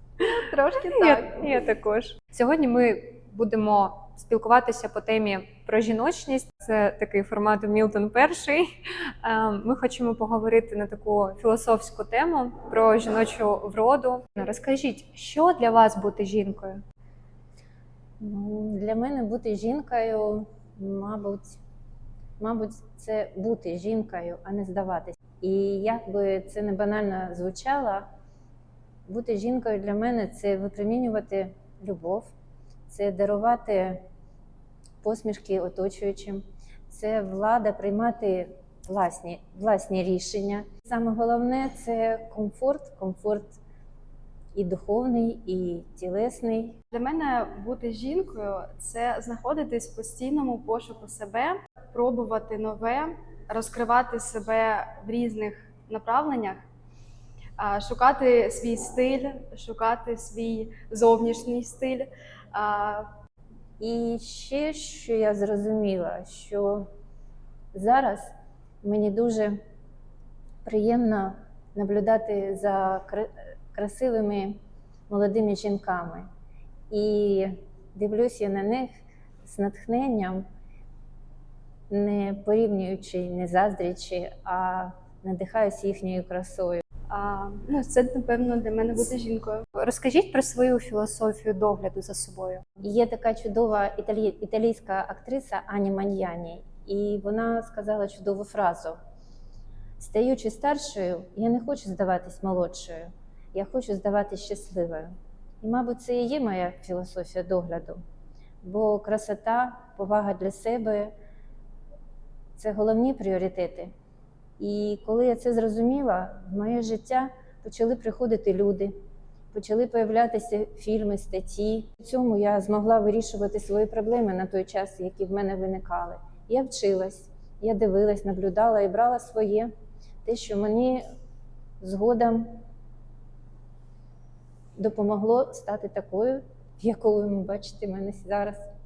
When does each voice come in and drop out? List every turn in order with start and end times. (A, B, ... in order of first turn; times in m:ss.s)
0:00.2-0:01.5 A
0:00.8-0:16.8 B
0:18.2-0:21.6 C
0:22.4-0:28.0 C
0:29.0-0:32.3 C
0:32.9-0:34.0 C
0:35.0-0:43.6 C
0:44.5-0:46.8 C
0:46.9-0:56.6 A
0:57.6-1:03.1 A
1:03.8-1:06.9 C
1:07.7-1:08.3 C
1:08.8-1:09.6 C
1:10.6-1:14.6 C
1:15.1-1:16.3 C
1:16.9-1:20.4 C
1:21.9-1:26.8 C
1:27.1-1:29.6 A
1:29.7-1:32.6 B
1:32.8-1:39.0 C
1:40.0-1:48.0 C
1:48.6-1:51.1 C
1:52.6-1:53.9 C
1:54.6-1:58.9 C
1:59.5-2:09.7 C
2:10.2-2:11.0 C
2:11.8-2:12.6 C
2:14.8-2:18.7 C